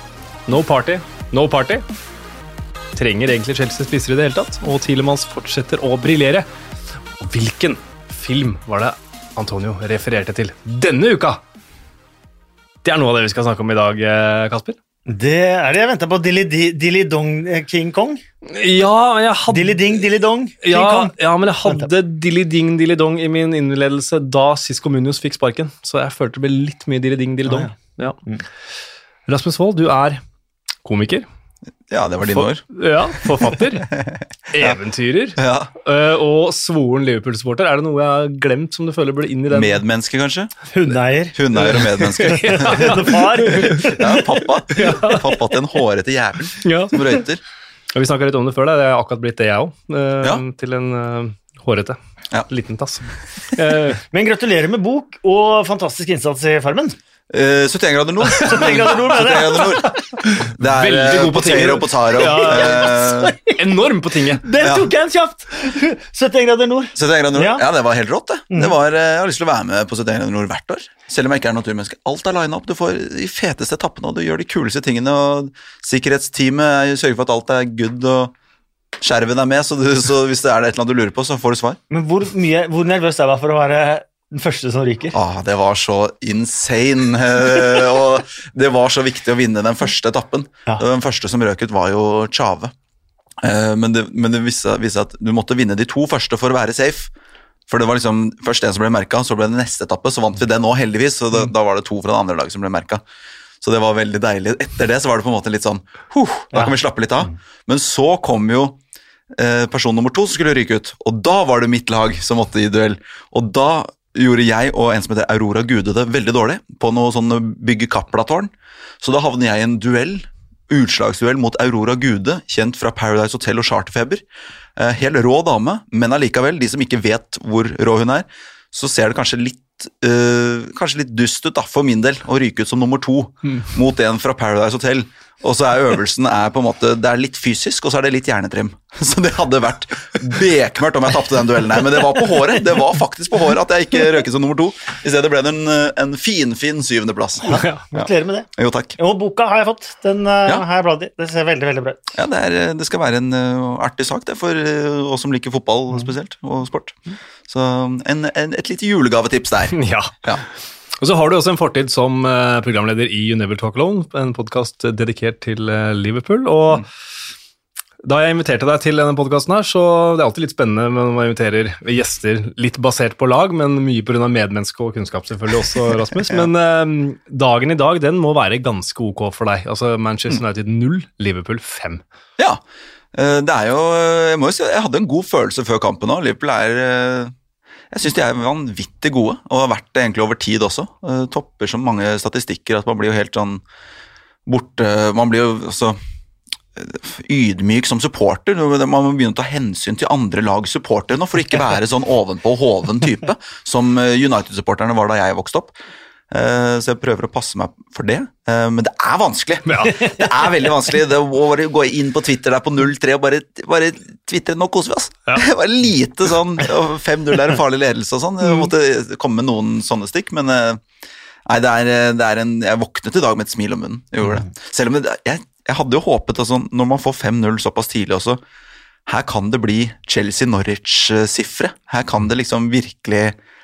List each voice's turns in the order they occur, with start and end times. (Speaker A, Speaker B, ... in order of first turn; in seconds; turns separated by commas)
Speaker A: 0.5-1.8, Speaker A: 2.9-6.5, Speaker A: 7.2-11.4, Speaker A: 12.8-14.8, Speaker B: 15.1-18.2, Speaker A: 18.4-20.1, Speaker B: 19.5-21.1, Speaker A: 20.6-28.2, Speaker B: 27.4-27.7, Speaker A: 29.3-30.2, Speaker A: 30.8-31.2, Speaker C: 31.9-32.6, Speaker A: 32.3-33.9, Speaker C: 34.0-34.8, Speaker A: 34.5-39.8, Speaker C: 35.4-35.7, Speaker C: 39.5-40.5, Speaker B: 40.7-44.3, Speaker C: 41.3-42.9, Speaker A: 41.7-44.1, Speaker C: 43.5-47.4, Speaker A: 44.7-45.4, Speaker A: 46.6-47.2, Speaker A: 47.9-52.0, Speaker A: 52.5-54.0, Speaker B: 54.1-57.0, Speaker C: 57.3-63.4, Speaker B: 58.4-60.0, Speaker A: 60.2-63.0, Speaker B: 62.2-63.6, Speaker A: 63.5-64.5, Speaker B: 64.4-67.6, Speaker C: 64.6-64.9, Speaker C: 66.9-78.3, Speaker C: 79.0-81.8, Speaker B: 81.9-85.2, Speaker C: 85.1-92.7, Speaker C: 93.4-97.1, Speaker C: 97.7-103.0, Speaker C: 103.6-108.8, Speaker C: 109.3-124.2, Speaker C: 124.8-149.0, Speaker B: 147.4-152.0, Speaker C: 152.1-160.4, Speaker A: 159.7-160.1, Speaker A: 161.0-166.8, Speaker A: 168.0-182.0, Speaker C: 183.1-187.3, Speaker C: 187.9-193.6, Speaker C: 194.4-196.0, Speaker C: 196.8-205.7, Speaker C: 206.3-220.8, Speaker A: 209.7-210.1, Speaker C: 221.4-228.4, Speaker C: 229.1-233.3